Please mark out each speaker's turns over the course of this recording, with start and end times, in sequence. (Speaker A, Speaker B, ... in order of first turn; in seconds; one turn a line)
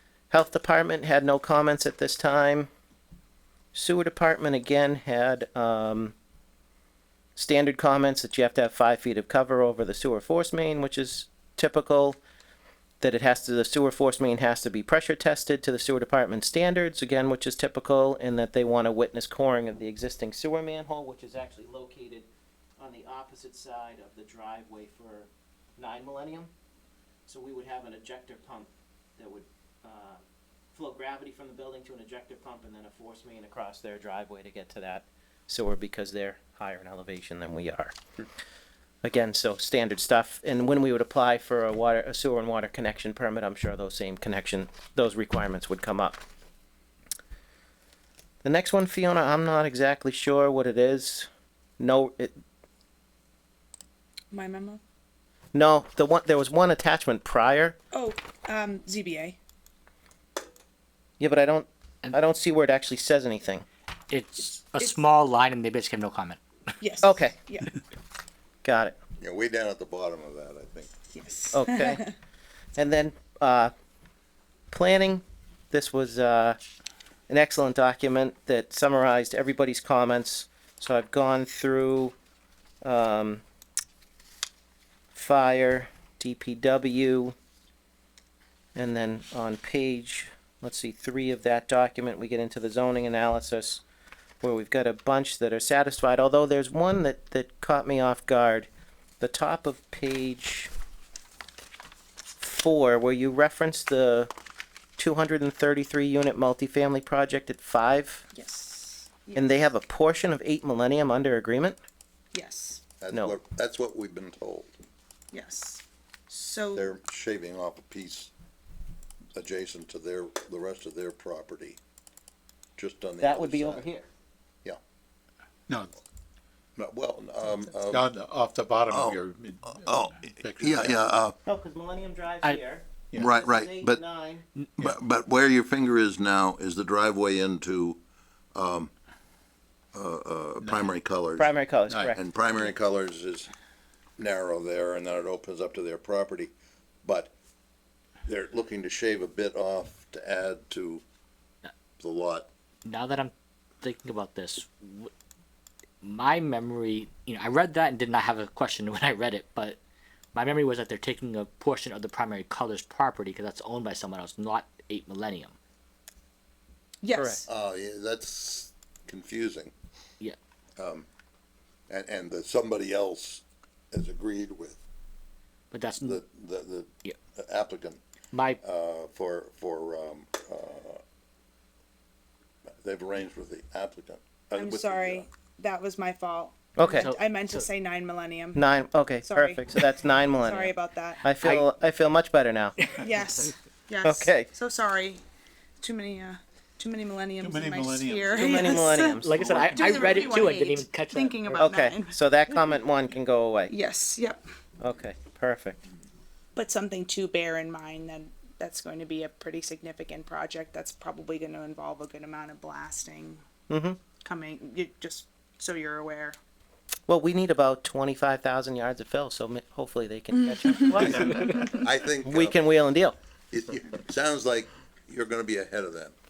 Speaker A: 0.3-2.7
Speaker A: 3.7-6.1
Speaker A: 7.3-12.2
Speaker A: 13.0-26.5
Speaker A: 27.3-30.2
Speaker A: 30.7-38.0
Speaker A: 39.0-46.2
Speaker A: 48.4-51.3
Speaker A: 51.8-52.3
Speaker B: 54.3-54.8
Speaker A: 55.5-57.8
Speaker B: 57.9-59.4
Speaker A: 61.2-63.6
Speaker C: 64.1-66.4
Speaker B: 66.8-67.7
Speaker A: 67.0-67.3
Speaker A: 68.6-69.0
Speaker D: 69.2-70.9
Speaker B: 71.1-72.1
Speaker A: 71.5-72.0
Speaker A: 72.8-73.7
Speaker A: 74.7-76.6
Speaker A: 77.3-82.1
Speaker A: 82.8-83.4
Speaker A: 85.1-87.3
Speaker A: 88.7-93.8
Speaker A: 94.4-98.7
Speaker A: 99.2-100.7
Speaker A: 102.4-104.3
Speaker A: 105.0-108.2
Speaker B: 108.3-109.5
Speaker A: 109.3-111.8
Speaker B: 112.3-112.8
Speaker D: 113.0-114.8
Speaker B: 115.3-116.8
Speaker D: 116.7-118.3
Speaker D: 119.3-121.8
Speaker D: 122.8-123.9
Speaker A: 123.2-124.0
Speaker E: 125.7-125.9
Speaker D: 126.8-128.1
Speaker E: 127.8-131.1
Speaker D: 128.9-129.2
Speaker D: 129.8-131.3
Speaker A: 131.4-134.4
Speaker D: 133.2-134.0
Speaker D: 134.8-138.0
Speaker D: 138.5-138.9
Speaker D: 139.9-141.5
Speaker E: 140.6-140.9
Speaker A: 141.4-142.2
Speaker E: 141.9-142.1
Speaker D: 142.1-143.5
Speaker D: 144.2-146.5
Speaker D: 147.0-147.3
Speaker D: 148.2-151.0
Speaker D: 152.0-152.5
Speaker C: 152.8-155.1
Speaker C: 156.0-159.8
Speaker C: 160.3-165.5
Speaker B: 167.0-167.4
Speaker A: 167.2-167.4
Speaker D: 167.5-169.7
Speaker D: 170.8-171.1
Speaker D: 171.9-174.8
Speaker C: 175.7-176.2
Speaker D: 176.0-178.0
Speaker C: 178.3-178.6
Speaker D: 178.6-181.0
Speaker D: 182.8-185.2
Speaker B: 184.6-188.6
Speaker A: 186.8-187.1
Speaker C: 186.9-187.7
Speaker A: 188.5-192.8
Speaker B: 189.2-189.6
Speaker B: 190.4-191.2
Speaker C: 191.4-191.7
Speaker B: 192.9-195.2
Speaker A: 194.0-194.5
Speaker B: 195.8-202.2
Speaker E: 197.4-200.3
Speaker A: 198.4-199.9
Speaker C: 199.2-201.6
Speaker A: 201.5-203.7
Speaker B: 203.7-204.4
Speaker A: 204.8-205.8
Speaker B: 206.6-213.4
Speaker A: 213.7-214.0
Speaker B: 214.2-216.4
Speaker A: 217.1-221.7
Speaker B: 220.5-221.5
Speaker D: 221.0-222.6
Speaker A: 222.2-223.2
Speaker D: 223.5-226.1